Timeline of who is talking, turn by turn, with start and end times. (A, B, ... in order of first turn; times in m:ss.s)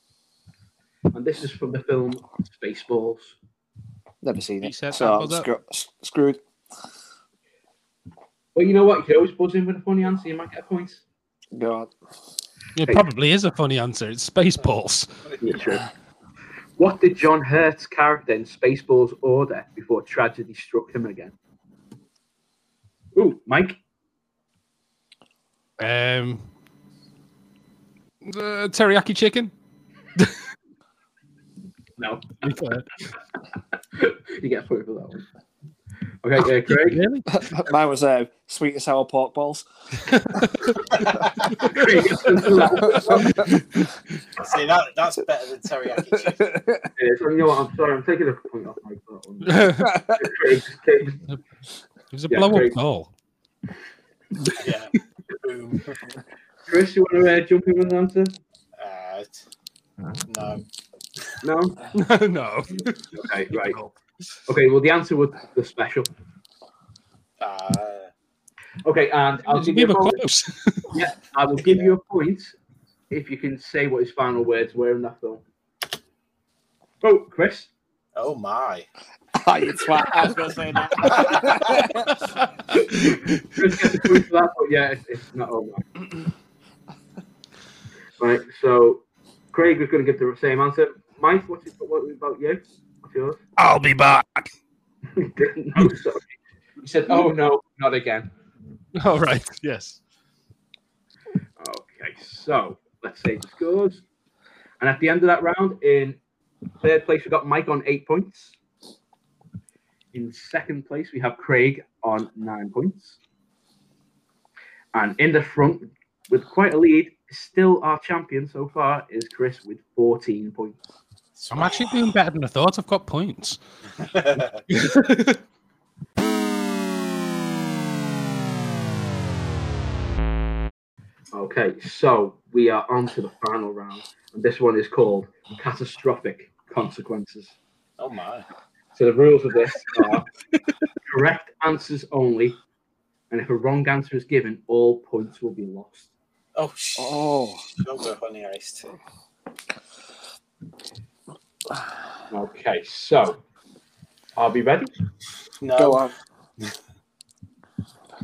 0:01.1-0:03.4 A
0:04.2-0:06.4 B
0:04.6-0:05.5 C
0:08.6-0:11.0 A
0:11.5-0:11.9 B
0:12.8-0:15.2 C
0:15.4-0:15.8 A
0:16.8-0:21.4 A
0:23.2-0:23.8 A
0:25.8-0:26.5 C
0:28.2-0:29.5 C
0:32.0-0:32.3 A
0:32.4-0:32.9 C
0:34.0-0:35.3 A
0:36.2-0:37.0 A
0:36.7-0:37.5 C
0:37.3-0:39.6 B
0:40.0-0:40.8 C
0:41.5-0:42.3 C
0:41.6-0:43.4 A
0:42.8-0:43.3 B
0:42.9-0:44.0 C
0:44.4-0:46.5 D
0:46.1-0:46.9 B
0:47.0-0:51.2 A
0:49.4-0:50.0 C
0:49.8-0:50.2 B
0:52.1-0:53.1 C
0:52.3-0:52.8 A
0:54.6-0:56.0 D
0:56.7-0:58.4 A
0:58.8-0:59.4 D
1:00.3-1:00.6 D
1:01.4-1:01.9 A
1:01.9-1:04.0 C
1:03.2-1:03.8 A
1:04.5-1:06.1 A
1:07.4-1:08.1 D
1:08.8-1:10.2 A
1:09.5-1:10.9 C
1:10.9-1:12.6 A
1:11.6-1:11.9 D
1:13.1-1:15.4 A
1:17.0-1:17.7 A
1:18.2-1:18.9 D
1:19.4-1:22.1 B
1:20.9-1:21.6 D
1:22.7-1:25.9 A
1:28.2-1:33.4 A
1:33.6-1:34.5 C
1:35.2-1:36.3 A
1:36.8-1:38.3 A
1:39.0-1:40.0 C
1:41.6-1:44.0 A
1:44.8-1:46.2 A
1:46.8-1:48.6 A
1:50.1-1:53.2 A
1:54.9-2:00.8 A
2:01.4-2:02.1 D
2:01.5-2:03.6 C
2:04.0-2:04.6 D
2:04.7-2:05.4 C
2:11.3-2:17.6 A
2:18.0-2:18.4 D
2:19.0-2:20.3 A
2:21.1-2:22.6 A
2:23.3-2:26.1 A
2:26.6-2:28.9 D
2:27.0-2:27.6 B
2:32.3-2:33.4 A
2:34.4-2:34.9 A
2:35.6-2:36.1 D
2:35.8-2:36.1 B